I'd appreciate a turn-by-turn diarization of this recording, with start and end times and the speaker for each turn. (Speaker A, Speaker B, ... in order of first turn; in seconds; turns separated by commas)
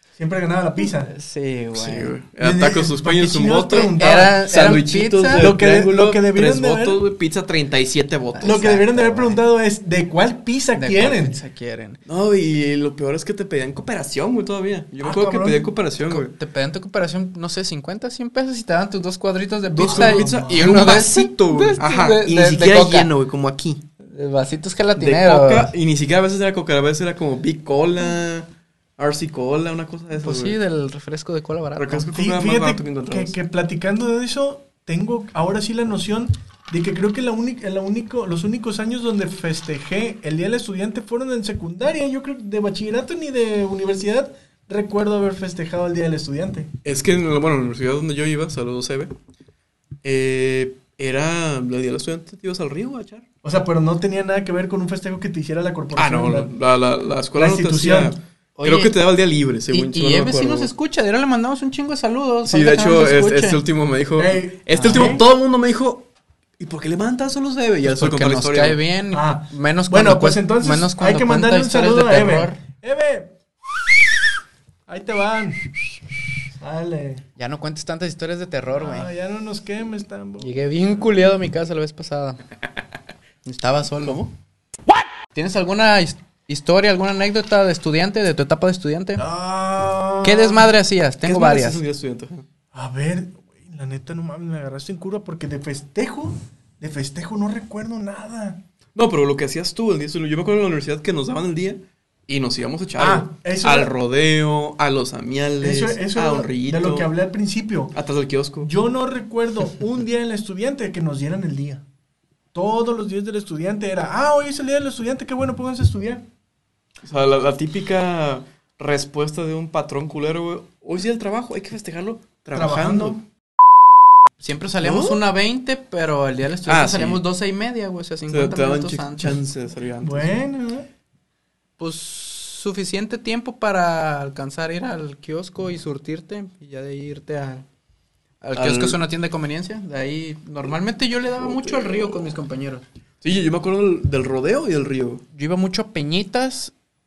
Speaker A: 0.1-1.1, Speaker B: 0.8-2.1, Speaker C: 1.7-8.7, Speaker A: 2.4-4.7, Speaker B: 3.8-5.5, Speaker A: 5.3-7.0, Speaker B: 8.3-9.4, Speaker A: 8.4-11.4, Speaker B: 10.8-12.0, Speaker C: 12.1-16.3, Speaker A: 15.0-15.7, Speaker B: 16.0-23.1, Speaker C: 19.7-23.8, Speaker A: 19.8-20.8, Speaker B: 24.0-25.7, Speaker C: 25.0-30.6, Speaker B: 30.2-32.1, Speaker C: 31.8-33.3, Speaker A: 32.1-46.7, Speaker C: 46.8-49.1, Speaker C: 50.0-53.2, Speaker A: 53.4-56.5, Speaker C: 55.9-60.7, Speaker A: 57.3-58.1, Speaker B: 58.6-59.0, Speaker B: 59.7-63.6, Speaker C: 62.4-66.1, Speaker A: 64.2-65.2, Speaker B: 64.7-65.1, Speaker C: 66.6-68.8, Speaker B: 67.8-72.6, Speaker A: 69.1-74.1, Speaker A: 74.9-76.0, Speaker A: 76.6-77.2, Speaker B: 77.4-79.1, Speaker A: 78.7-80.5, Speaker B: 80.4-82.4, Speaker B: 83.4-84.2, Speaker C: 84.0-84.3, Speaker B: 85.3-89.2, Speaker A: 89.2-90.7, Speaker B: 90.2-91.8, Speaker C: 91.2-92.5, Speaker A: 92.7-98.6, Speaker C: 98.9-107.1, Speaker A: 103.0-103.9, Speaker A: 105.6-107.9, Speaker C: 107.9-108.7, Speaker A: 108.6-111.8, Speaker A: 112.5-116.2, Speaker C: 117.0-123.2, Speaker A: 122.5-123.2, Speaker B: 124.4-129.4, Speaker C: 124.8-125.2, Speaker C: 126.7-127.2, Speaker C: 128.3-130.3, Speaker A: 130.0-130.9, Speaker B: 131.8-137.6, Speaker B: 138.4-142.8, Speaker C: 138.6-139.0, Speaker C: 141.4-142.3, Speaker C: 143.2-145.2, Speaker B: 145.3-146.7